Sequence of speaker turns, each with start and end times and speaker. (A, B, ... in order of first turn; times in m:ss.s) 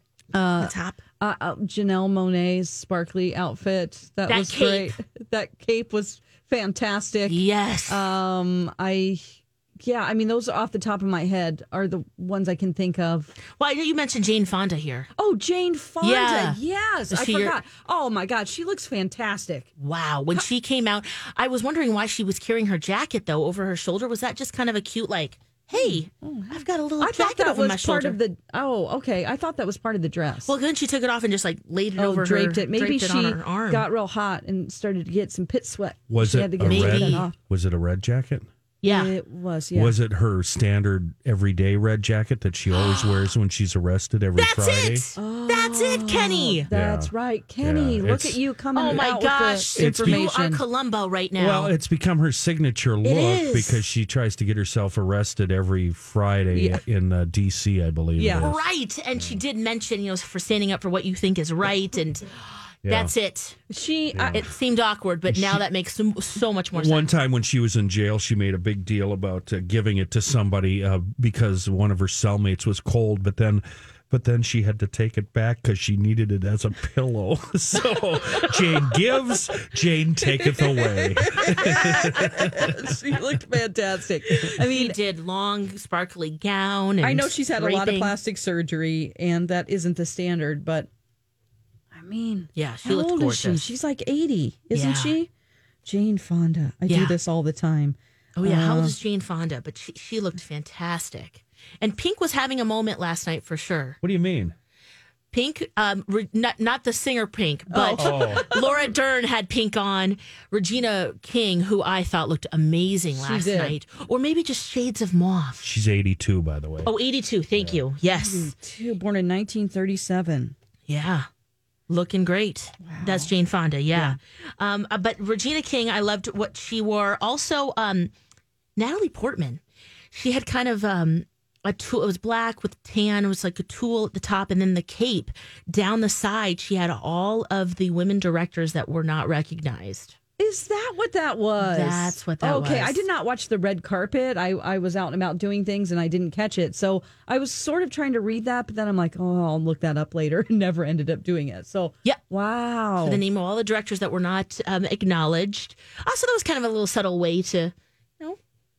0:00.3-0:13.4 A
0:00.6-0:01.0 B
0:04.3-0:05.0 B
0:07.3-0:08.0 B
0:13.5-0:15.1 B
0:15.2-0:19.7 A
0:16.0-0:16.6 B
0:17.1-0:17.6 B
0:19.8-0:28.2 B
0:25.8-0:30.5 A
0:30.5-0:33.9 B
0:32.0-0:37.4 A
0:36.1-0:38.5 C
0:36.6-0:37.3 B
0:38.8-0:39.1 B
0:38.9-0:40.0 A
0:39.7-0:45.1 C
0:42.7-0:43.4 B
0:44.4-0:46.7 B
0:45.2-0:50.6 A
0:46.7-0:48.4 C
0:48.8-0:51.7 B
0:49.8-0:50.3 C
0:51.4-0:58.6 C
0:53.0-0:53.8 B
0:56.5-0:56.8 A
0:58.2-0:58.5 A
0:58.4-1:02.3 B
0:59.2-0:59.4 C
1:02.8-1:03.1 C
1:02.9-1:03.6 B
1:03.7-1:04.5 A
1:04.1-1:04.5 C
1:04.3-1:07.1 B
1:05.3-1:05.6 C
1:06.7-1:22.9 C
1:20.5-1:25.0 A
1:24.6-1:28.2 B
1:27.0-1:30.9 A
1:31.9-1:35.3 A
1:32.6-1:33.7 B
1:34.7-1:35.2 B
1:35.8-1:39.0 A
1:36.9-1:37.2 B
1:38.4-1:44.0 B
1:44.0-1:44.5 C
1:45.3-1:55.7 B
1:47.7-1:48.9 A
1:47.9-1:48.5 C
1:53.1-1:53.8 A
1:55.6-1:56.9 C
1:56.8-1:58.5 B
1:57.5-1:57.8 C
1:58.1-2:00.6 A
2:00.9-2:01.3 B
2:01.9-2:08.1 B
2:02.8-2:03.3 A
2:08.8-2:09.6 B
2:10.1-2:20.2 B
2:20.4-2:33.2 A
2:21.6-2:23.0 B
2:33.0-2:38.4 B